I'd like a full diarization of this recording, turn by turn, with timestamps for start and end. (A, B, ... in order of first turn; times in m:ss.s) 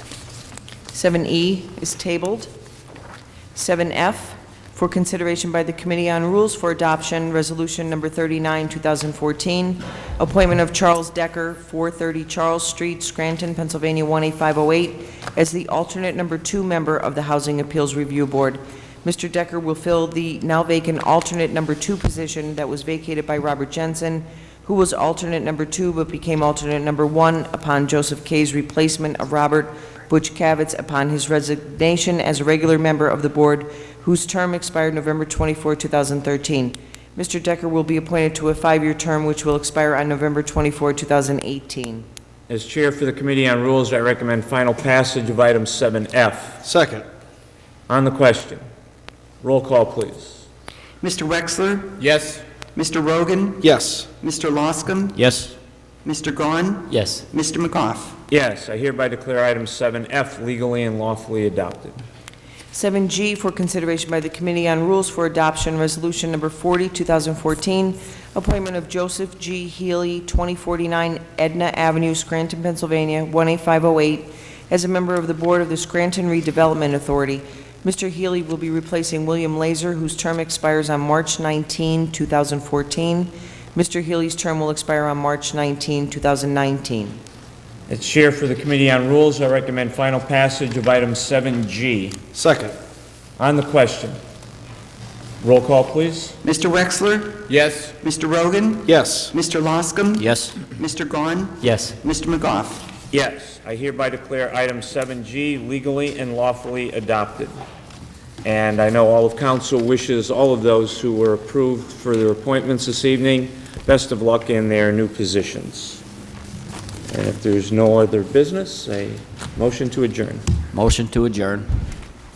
0:00.9-0:02.5 A
0:03.6-0:42.1 A
0:42.5-0:46.6 B
0:46.6-0:47.1 C
0:47.9-0:48.6 B
0:49.4-0:50.4 B
0:51.0-0:52.0 D
0:52.0-0:52.4 B
0:52.8-0:53.7 D
0:53.6-0:54.1 C
0:54.2-0:55.2 D
0:55.2-0:55.6 E
0:56.0-0:58.2 D
0:56.9-0:57.2 E
0:58.3-1:02.0 B
1:02.7-1:27.2 A
1:27.9-1:32.2 B
1:32.3-1:32.8 C
1:33.4-1:34.2 B
1:35.4-1:36.4 B
1:36.4-1:37.5 D
1:37.5-1:37.9 B
1:38.0-1:42.9 D
1:38.9-1:39.3 C
1:40.2-1:40.6 E
1:41.6-1:42.0 E
1:43.1-1:47.5 B
1:48.4-1:56.0 B
1:57.1-2:00.5 B
2:00.7-2:01.7 E